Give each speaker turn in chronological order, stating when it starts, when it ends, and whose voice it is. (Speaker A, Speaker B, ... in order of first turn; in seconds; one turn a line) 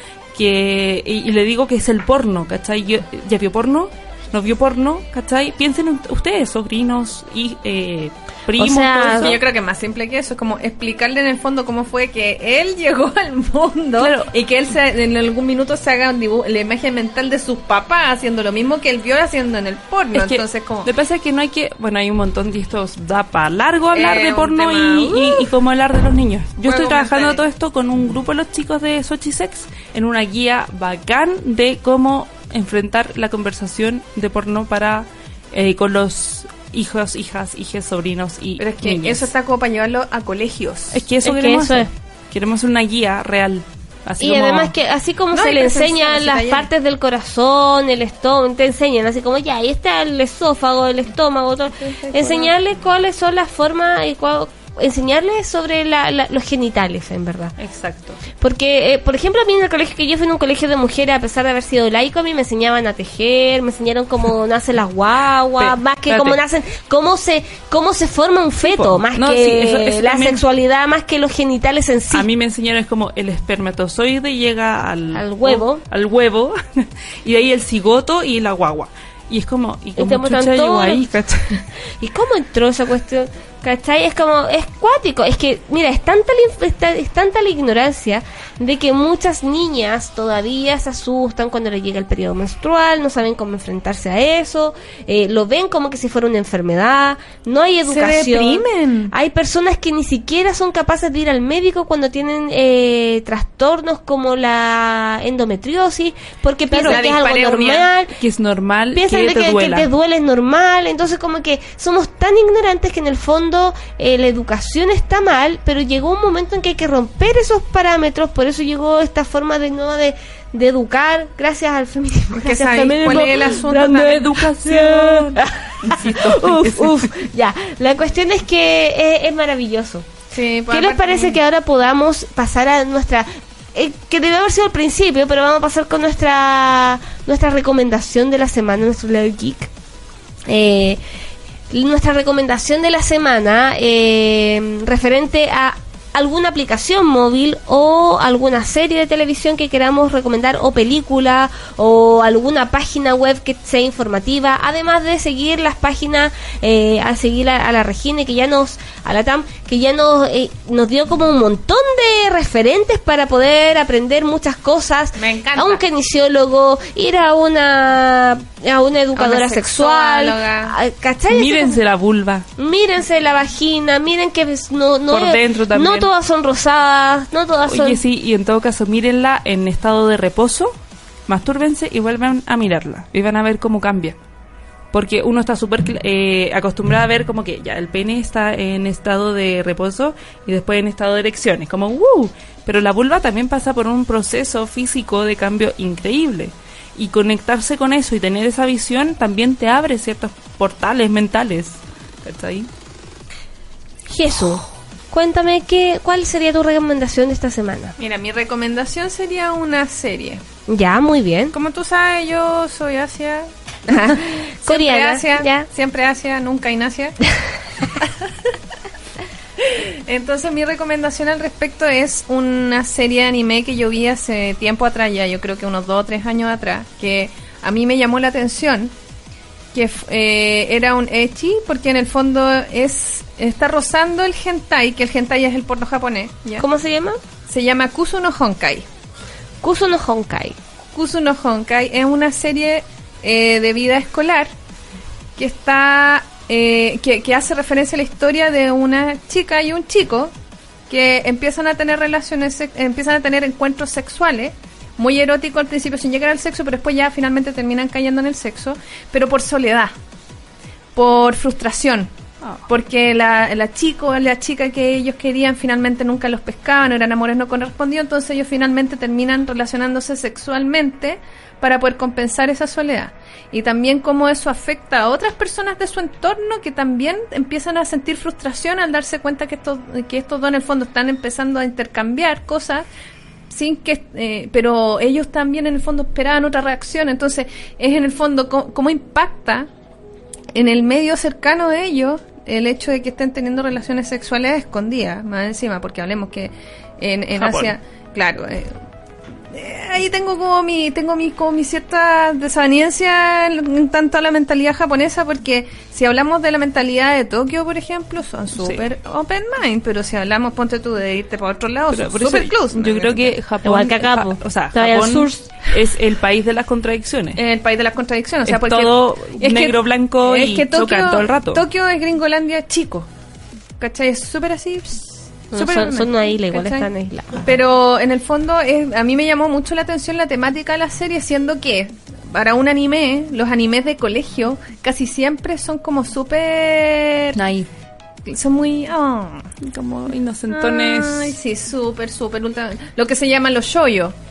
Speaker A: 0.3-9.4
Speaker B: 8.6-9.3
Speaker C: 9.1-20.9
Speaker A: 14.0-14.3
Speaker A: 20.1-39.3
Speaker C: 23.9-25.5
Speaker C: 26.6-27.4
Speaker C: 38.6-41.0
Speaker A: 40.9-44.7
Speaker B: 41.2-41.9
Speaker B: 44.2-57.5
Speaker C: 45.3-46.7
Speaker A: 57.6-58.2
Speaker B: 58.4-72.3
Speaker A: 65.6-66.4
Speaker A: 68.6-70.4
Speaker A: 72.1-81.6
Speaker B: 75.1-75.8
Speaker B: 80.0-81.1
Speaker B: 82.0-108.1
Speaker C: 97.9-99.1
Speaker A: 106.7-107.0
Speaker C: 106.8-107.9
Speaker A: 108.2-109.9
Speaker B: 108.9-130.1
Speaker C: 122.4-124.3
Speaker A: 123.8-127.1
Speaker C: 130.3-131.4
Speaker B: 130.7-139.7
Speaker B: 140.5-141.0
Speaker B: 141.7-171.8
Speaker C: 165.2-165.8
Speaker C: 169.2-170.7
Speaker A: 171.3-172.5
Speaker B: 172.6-178.0
Speaker A: 175.1-176.1
Speaker A: 177.7-180.7
Speaker A: 181.3-184.2
Speaker A: 184.9-202.7
Speaker B: 204.1-207.9
Speaker C: 208.0-210.4
Speaker B: 210.7-211.5
Speaker C: 211.5-217.3
Speaker B: 213.9-215.7
Speaker C: 219.6-228.9
Speaker C: 229.7-236.6
Speaker B: 236.6-237.2
Speaker C: 237.5-238.9
Speaker B: 239.6-240.6
Speaker C: 240.9-244.5
Speaker C: 245.4-250.3
Speaker C: 250.9-259.9
Speaker C: 260.9-262.1
Speaker C: 262.7-282.9
Speaker C: 283.5-289.7
Speaker C: 290.5-298.7
Speaker A: 297.4-297.7
Speaker C: 299.5-313.4
Speaker A: 308.6-308.8
Speaker A: 311.9-317.4
Speaker B: 313.6-315.5
Speaker C: 317.3-323.1
Speaker A: 318.4-321.6
Speaker C: 323.8-337.4
Speaker B: 325.5-327.5
Speaker A: 337.3-337.7
Speaker C: 338.2-339.5
Speaker A: 339.6-341.3
Speaker C: 340.5-344.1